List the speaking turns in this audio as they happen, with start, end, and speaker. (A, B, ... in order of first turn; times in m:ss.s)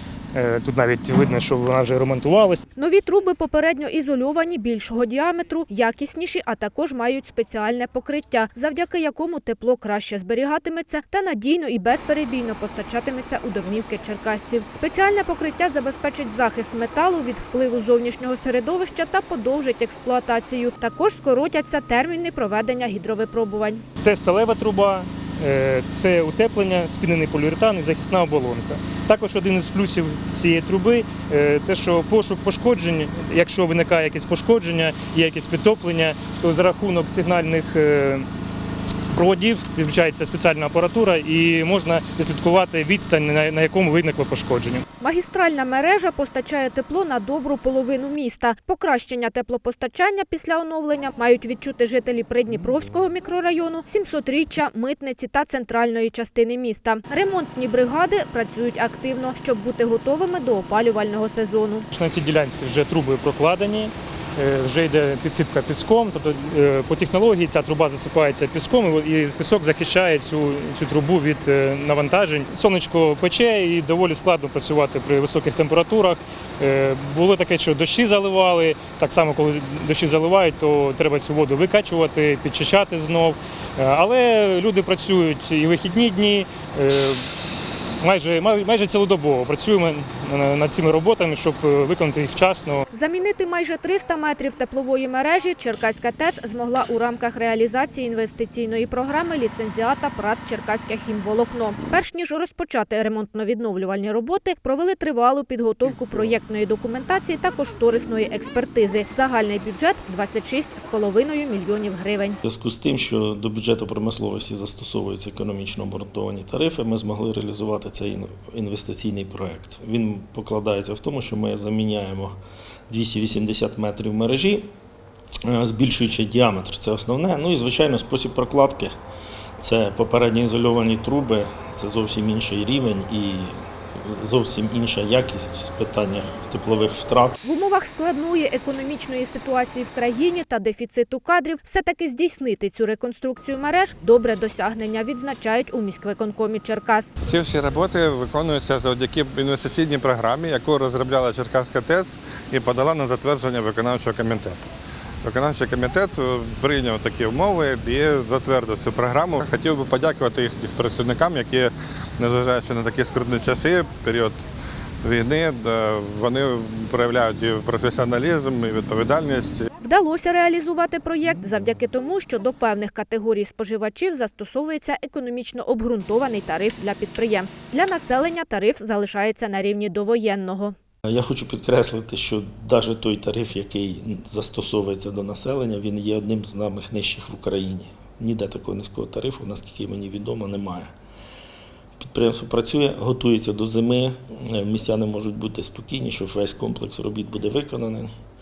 0:00.3-0:02.6 A
0:02.8-0:23.8 B
0:24.0-0:38.3 A
0:39.1-0:44.8 A
0:45.0-1:01.9 B
1:01.9-1:27.4 A
1:28.0-1:32.8 A
1:32.9-1:52.4 B
1:52.4-2:02.3 C
2:02.9-2:04.7 C
2:05.4-2:08.9 C
2:09.6-2:17.4 C
2:17.4-2:27.1 B
2:27.2-2:34.7 D
2:35.2-2:44.4 D
2:45.0-2:49.7 D
2:49.8-3:00.8 B
3:01.1-3:10.9 C
3:12.0-3:18.1 C